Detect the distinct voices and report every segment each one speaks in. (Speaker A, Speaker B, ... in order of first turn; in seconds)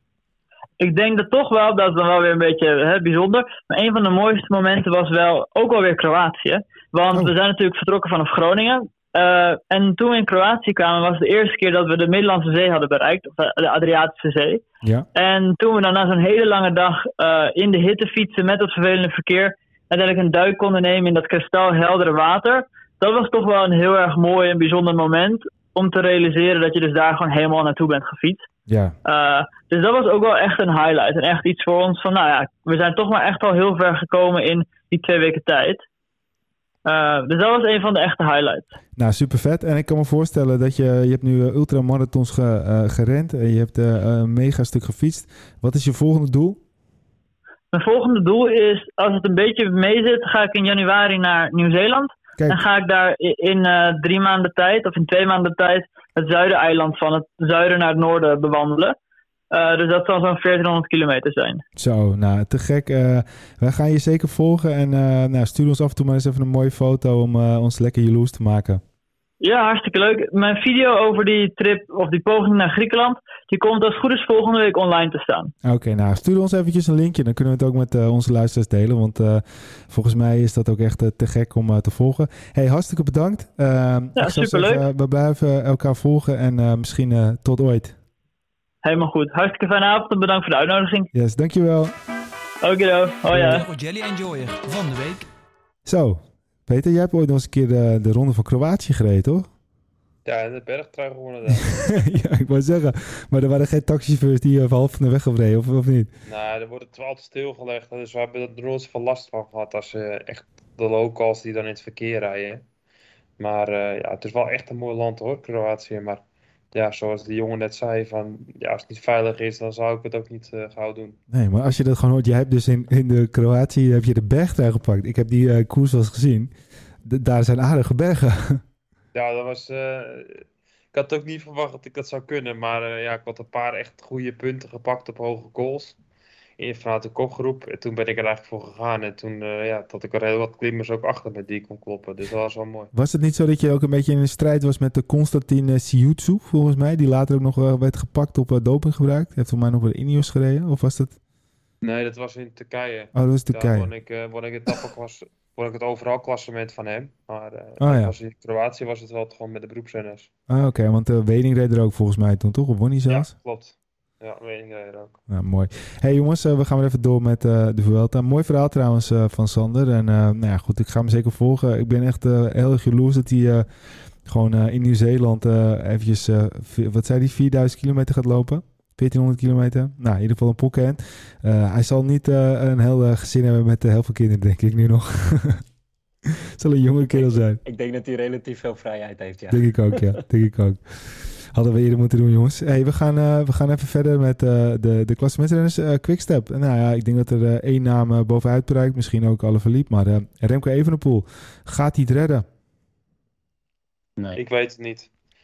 Speaker A: 0.8-14.6, 15.1-28.4, 29.0-35.8, 36.9-38.7, 47.7-59.0, 59.5-61.6, 69.4-75.5, 84.2-84.8, 88.8-91.1, 92.6-93.6
Speaker B: 28.7-28.9, 39.0-46.6, 52.4-52.6, 61.8-68.8, 75.6-88.0, 91.1-91.9, 95.8-99.5, 101.9-106.1, 121.3-126.5, 127.0-128.6, 142.9-151.2, 153.1-153.9, 157.8-158.1, 160.5-163.3, 165.3-173.7, 174.2-185.6, 186.2-187.6, 189.5-202.4
Speaker C: 93.3-95.2
Speaker D: 100.2-102.1, 106.2-112.6, 113.4-121.2, 129.1-136.0, 136.6-142.9, 151.8-160.3, 163.1-165.2, 204.3-205.1
Speaker E: 187.1-190.2